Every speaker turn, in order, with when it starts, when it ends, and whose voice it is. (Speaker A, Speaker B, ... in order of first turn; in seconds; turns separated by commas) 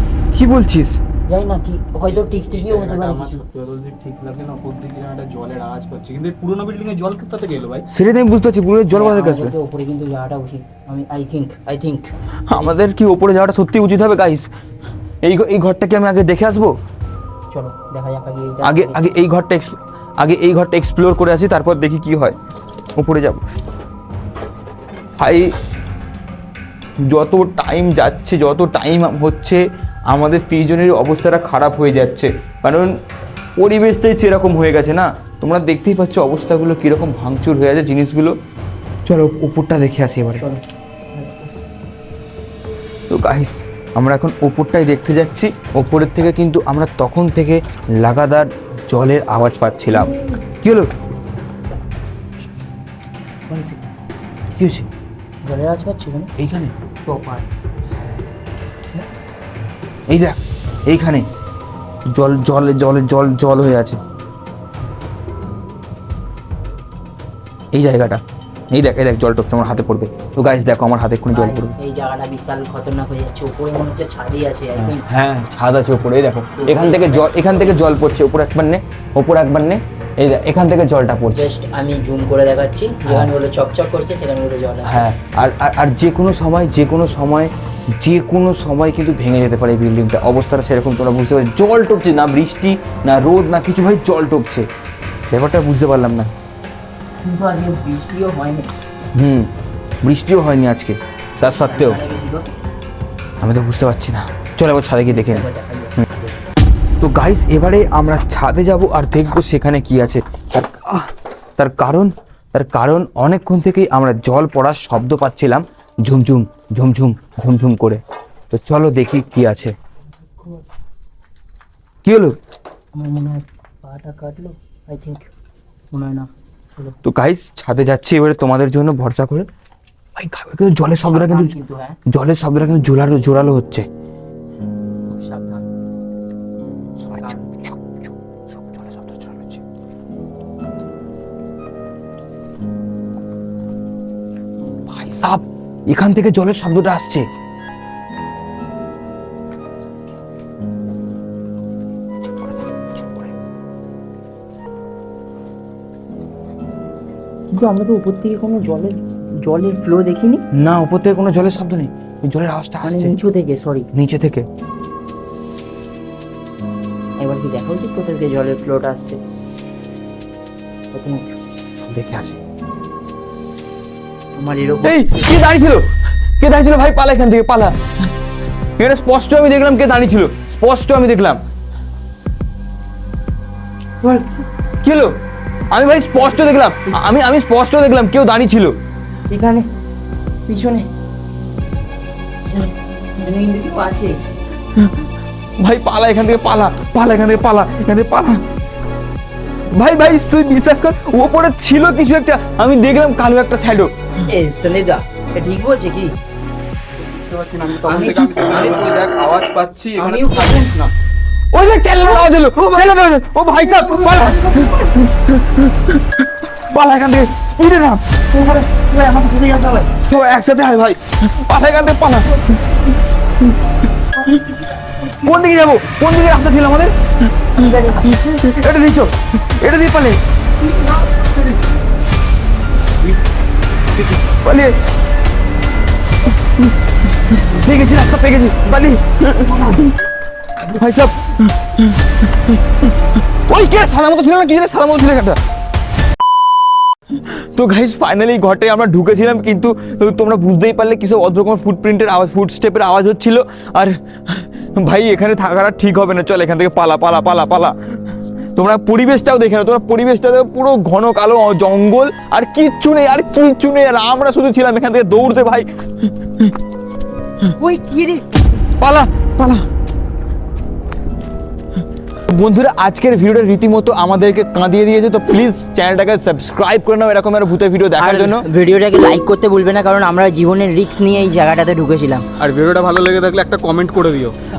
Speaker A: 0.3-1.0, Speaker B: 1.3-3.4, Speaker C: 2.1-7.8, Speaker A: 7.9-9.5, Speaker B: 8.9-12.8, Speaker A: 12.5-14.5, Speaker A: 15.2-16.7, Speaker B: 17.5-19.0, Speaker A: 18.6-22.4, Speaker A: 23.0-23.4, Speaker A: 25.2-25.5, Speaker A: 27.1-32.9, Speaker A: 33.6-38.3, Speaker A: 39.0-40.4, Speaker B: 40.4-40.6, Speaker B: 41.1-41.5, Speaker A: 43.1-50.9, Speaker B: 49.9-50.4, Speaker B: 53.5-53.8, Speaker A: 54.6-54.9, Speaker B: 55.4-56.3, Speaker A: 56.4-56.7, Speaker B: 57.0-57.5, Speaker A: 60.1-61.2, Speaker A: 62.1-64.0, Speaker A: 67.7-71.7, Speaker B: 71.3-75.0, Speaker A: 74.8-81.5, Speaker B: 76.5-77.8, Speaker B: 81.3-85.1, Speaker A: 83.0-83.3, Speaker A: 84.8-94.7, Speaker A: 95.3-96.3, Speaker B: 97.2-98.7, Speaker A: 99.1-99.5, Speaker A: 100.0-102.0, Speaker B: 101.4-102.5, Speaker A: 103.4-105.5, Speaker B: 105.0-106.1, Speaker A: 107.0-119.7, Speaker A: 122.0-122.3, Speaker B: 122.9-125.3, Speaker B: 125.9-127.0, Speaker A: 127.0-129.5, Speaker A: 130.2-131.6, Speaker B: 131.0-132.0, Speaker A: 132.1-133.9, Speaker B: 135.1-135.7, Speaker A: 137.0-139.6, Speaker B: 137.2-137.5, Speaker A: 144.9-147.3, Speaker A: 152.4-153.3, Speaker B: 157.5-160.4, Speaker A: 160.5-163.1, Speaker B: 162.8-163.9, Speaker A: 163.9-164.4, Speaker B: 167.2-169.2, Speaker B: 170.9-171.4, Speaker A: 171.8-172.4, Speaker B: 174.3-175.4, Speaker A: 174.8-175.9, Speaker A: 176.4-177.8, Speaker A: 178.8-181.4, Speaker A: 184.8-185.1, Speaker A: 185.7-188.7, Speaker B: 189.3-189.7, Speaker B: 190.5-190.9, Speaker B: 192.5-194.2, Speaker A: 194.8-195.1, Speaker A: 195.6-198.4, Speaker A: 199.7-203.9, Speaker B: 204.2-206.1, Speaker C: 206.9-210.9, Speaker B: 207.8-209.0, Speaker B: 210.0-210.7, Speaker A: 211.5-218.2, Speaker C: 212.4-212.9, Speaker C: 213.7-214.3, Speaker B: 214.1-214.9, Speaker B: 218.3-219.9, Speaker A: 219.8-230.2, Speaker A: 234.0-234.7, Speaker A: 236.3-240.0, Speaker A: 240.6-245.4, Speaker A: 247.1-258.0, Speaker A: 258.6-266.6, Speaker B: 267.6-268.2, Speaker A: 268.7-269.6, Speaker A: 272.3-278.4, Speaker B: 278.0-282.3, Speaker C: 282.4-284.3